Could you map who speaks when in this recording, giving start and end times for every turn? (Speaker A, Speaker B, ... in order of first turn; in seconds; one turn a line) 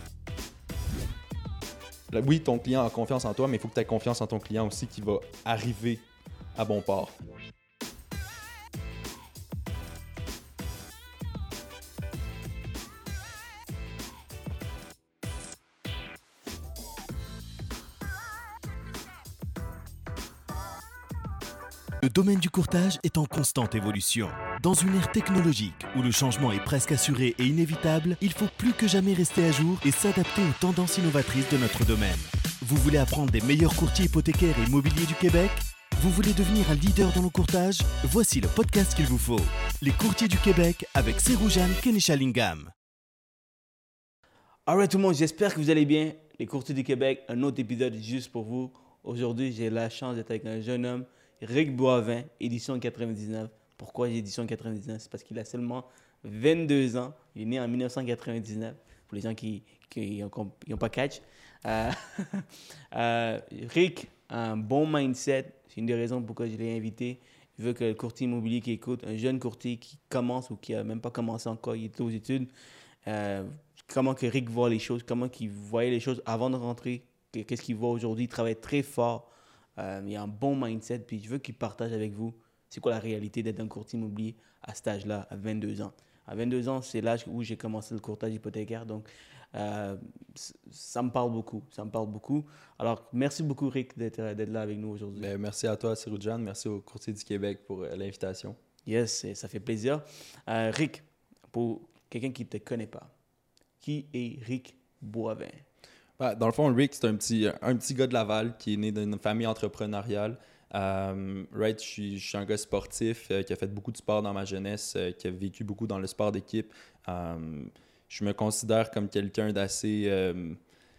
Speaker A: 2.1-7.2
Speaker B: 22.0-42.7
Speaker C: 44.6-72.5
Speaker C: 73.0-95.3
Speaker A: 95.2-98.6
Speaker C: 98.8-103.1
Speaker C: 103.8-105.6
Speaker A: 106.2-120.6